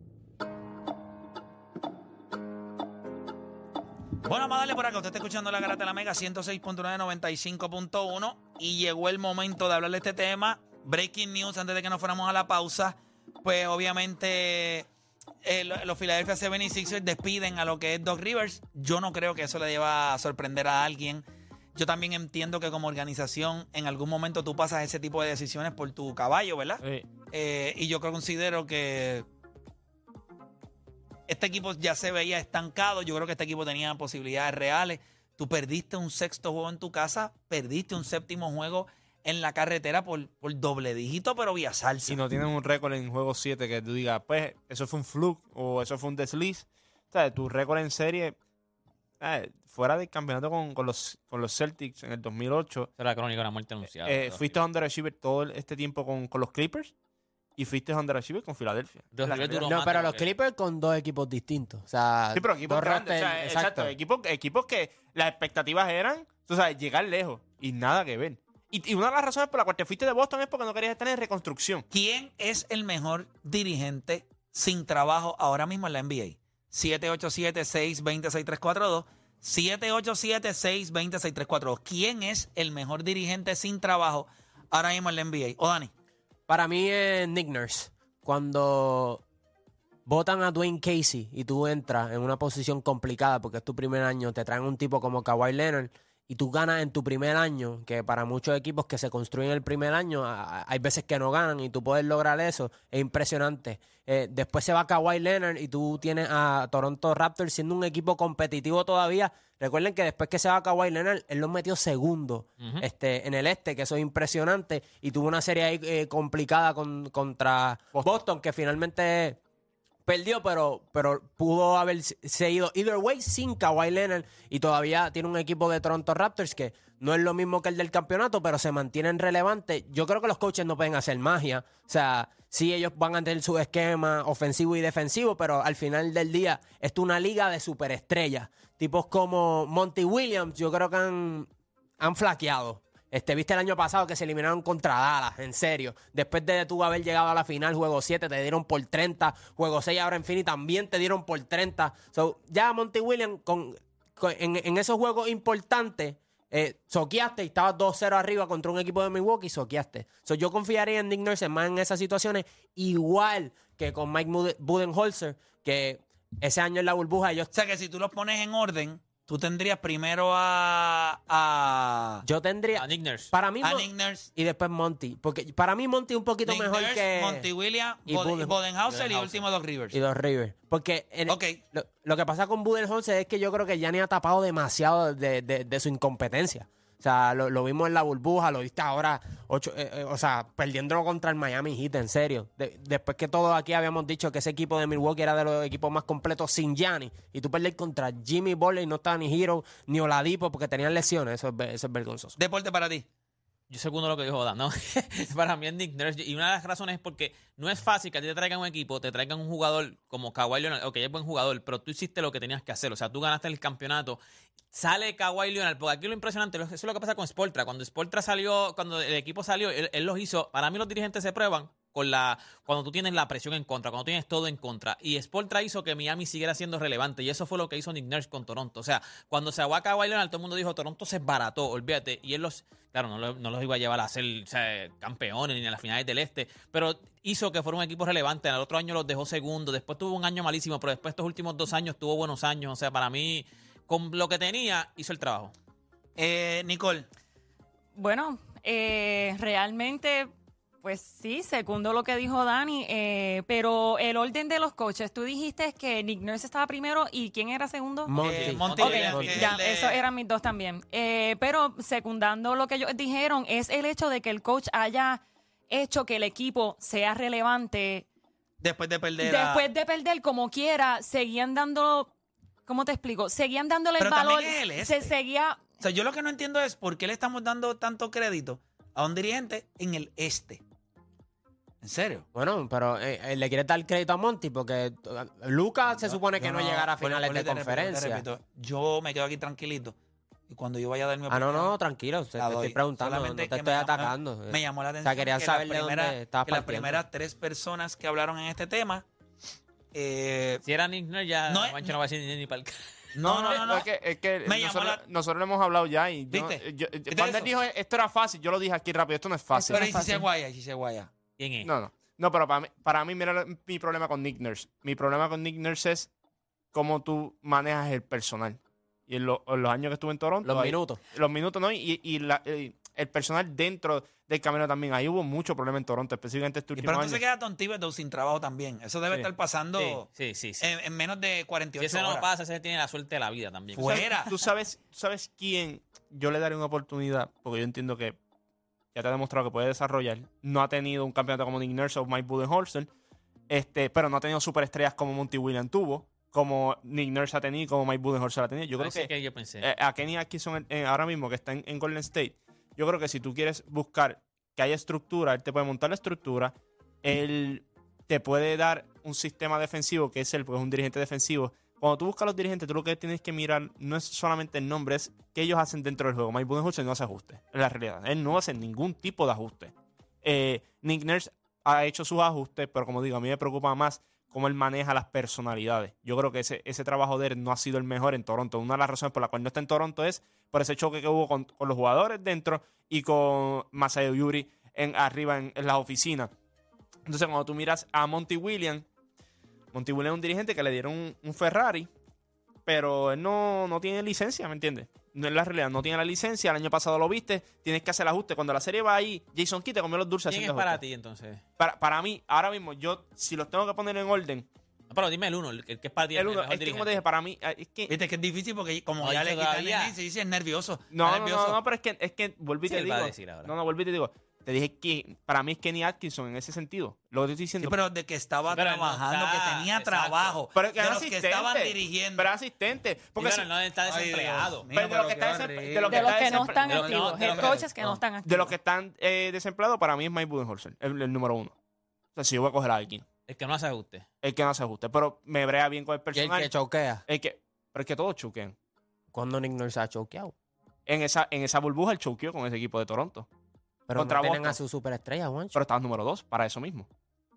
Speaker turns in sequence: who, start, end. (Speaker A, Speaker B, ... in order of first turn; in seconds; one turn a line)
Speaker A: 4.2-14.9
Speaker A: 15.4-21.2
Speaker A: 21.8-29.2
Speaker A: 31.3-42.2
Speaker B: 42.1-48.4
Speaker B: 49.2-52.9
Speaker C: 53.0-54.6
Speaker B: 54.0-56.9
Speaker B: 57.6-59.7
Speaker C: 59.1-60.3
Speaker D: 59.6-63.9
Speaker B: 62.3-71.9
Speaker A: 71.9-85.9
Speaker D: 86.5-89.2
Speaker D: 90.1-119.4
Speaker C: 112.6-112.8
Speaker D: 120.1-141.5
Speaker D: 142.0-167.5
Speaker A: 167.5-172.2
Speaker D: 172.2-177.5
Speaker C: 172.7-173.3
Speaker A: 173.6-174.3
Speaker A: 176.4-180.0
Speaker D: 178.1-178.6
Speaker C: 178.9-179.3
Speaker D: 179.9-202.4
Speaker A: 181.3-181.6
Speaker A: 202.4-203.1
Speaker C: 203.7-214.2
Speaker C: 214.7-245.5
Speaker A: 246.2-247.1
Speaker E: 247.9-250.3
Speaker E: 250.8-268.1
Speaker D: 258.1-259.5
Speaker A: 258.2-260.0
Speaker C: 258.5-259.1
Speaker A: 268.6-269.7
Speaker E: 269.2-272.1
Speaker E: 272.7-275.6
Speaker A: 274.0-275.1
Speaker A: 275.8-280.6
Speaker A: 281.8-282.3
Speaker D: 282.3-288.2
Speaker A: 286.0-290.0
Speaker A: 290.5-291.7
Speaker D: 291.3-297.0
Speaker A: 292.4-299.1
Speaker A: 299.9-300.6
Speaker C: 300.6-302.8
Speaker A: 301.5-301.9
Speaker A: 303.1-303.9
Speaker B: 303.2-309.9
Speaker A: 304.4-305.0
Speaker A: 306.3-307.5
Speaker E: 309.5-310.3
Speaker A: 309.7-311.1
Speaker C: 311.4-311.7
Speaker B: 311.6-316.1
Speaker B: 316.7-327.2
Speaker D: 320.4-321.0
Speaker A: 326.8-330.1
Speaker C: 329.8-330.7
Speaker A: 330.6-332.3
Speaker C: 331.8-334.1
Speaker A: 333.7-334.3
Speaker B: 333.8-338.2
Speaker B: 338.9-342.9
Speaker B: 343.5-349.1
Speaker C: 348.8-349.7
Speaker B: 349.6-386.3
Speaker B: 387.1-388.9
Speaker B: 389.7-391.9
Speaker B: 392.7-400.8
Speaker C: 400.3-401.4
Speaker B: 401.6-404.5
Speaker C: 404.9-407.0
Speaker B: 406.1-407.9
Speaker A: 407.9-411.6
Speaker C: 409.0-409.9
Speaker B: 410.9-417.8
Speaker C: 412.7-413.5
Speaker A: 417.6-422.3
Speaker C: 418.5-420.4
Speaker B: 420.5-423.5
Speaker C: 423.2-424.7
Speaker A: 423.9-427.7
Speaker B: 424.7-426.9
Speaker E: 425.9-428.6
Speaker C: 426.4-428.0
Speaker B: 428.2-431.6
Speaker B: 432.2-433.1
Speaker C: 433.3-434.1
Speaker B: 434.2-436.5
Speaker D: 436.1-437.0
Speaker B: 437.1-438.6
Speaker D: 439.1-440.3
Speaker B: 440.9-443.3
Speaker D: 443.9-445.6
Speaker B: 443.9-444.6
Speaker B: 445.6-446.9